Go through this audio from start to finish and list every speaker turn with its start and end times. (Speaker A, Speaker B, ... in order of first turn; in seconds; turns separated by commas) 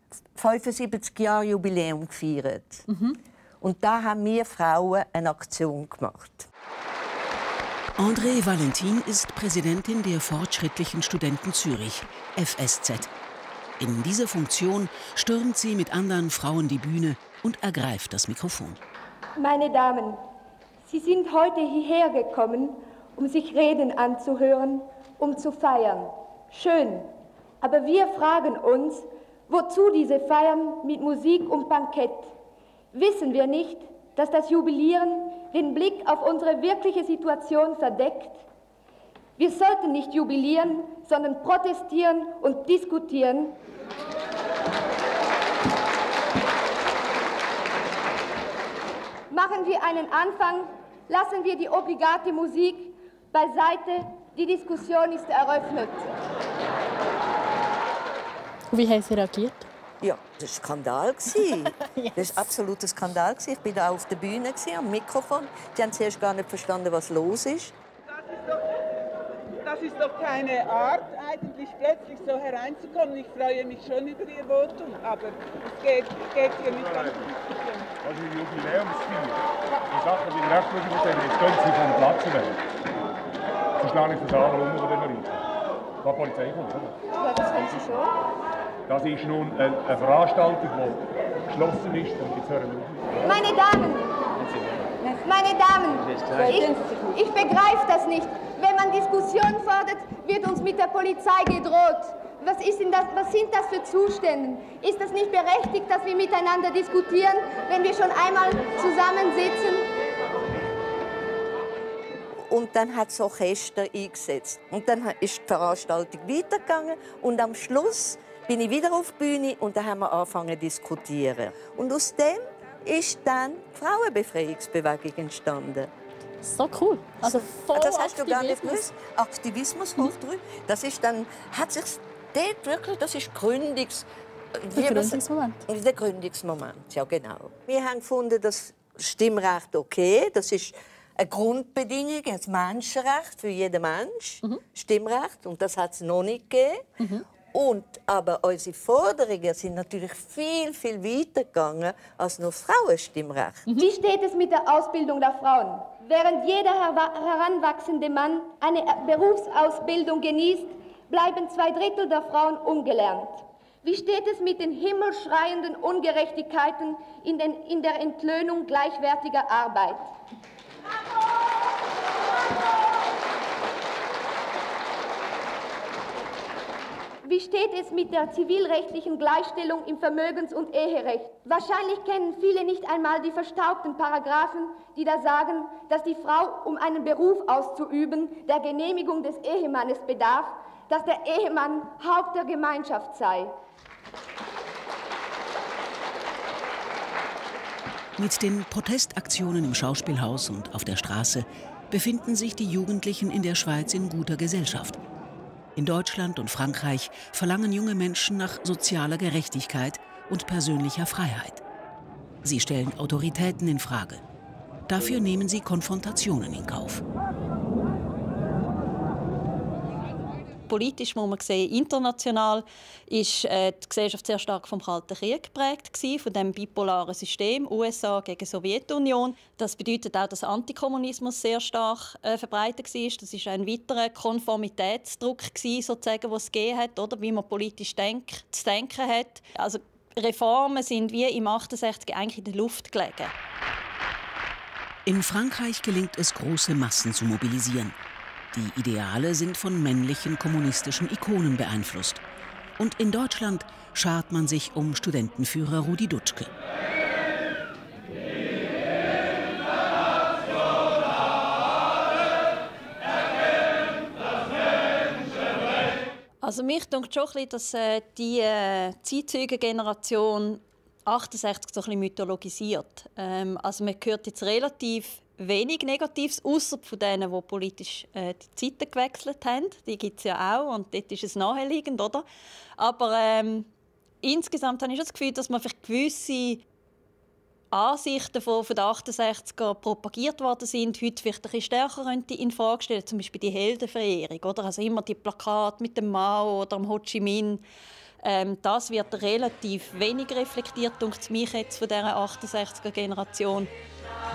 Speaker A: 0.3-2.9, Speaker B: 2.9-3.2, Speaker A: 3.6-6.5, Speaker C: 8.0-13.1, Speaker C: 13.8-18.8, Speaker D: 19.4-20.2, Speaker D: 20.9-27.1, Speaker D: 27.6-32.3, Speaker D: 32.9-38.4, Speaker D: 39.4-43.6, Speaker D: 49.3-56.1, Speaker B: 58.7-59.7, Speaker A: 60.0-67.7, Speaker B: 61.7-62.4, Speaker E: 69.6-77.8, Speaker F: 76.8-77.2, Speaker F: 78.0-82.6, Speaker F: 83.8-85.4, Speaker F: 86.0-87.0, Speaker F: 88.9-93.2, Speaker D: 93.2-94.1, Speaker D: 95.2-109.9, Speaker A: 112.4-125.9, Speaker B: 126.4-128.8, Speaker A: 127.2-146.8, Speaker B: 134.7-135.6, Speaker B: 147.0-147.2, Speaker A: 147.5-153.7, Speaker D: 153.8-170.1, Speaker D: 177.2-193.5, Speaker C: 198.2-205.0, Speaker C: 205.8-211.6, Speaker C: 212.4-214.2, Speaker C: 214.9-217.0, Speaker G: 220.7-243.3, Speaker C: 245.1-247.9, Speaker C: 248.5-252.2, Speaker C: 252.8-256.5, Speaker G: 266.4-282.2, Speaker G: 282.8-283.7, Speaker G: 284.2-286.6, Speaker G: 287.7-297.6, Speaker G: 298.2-303.7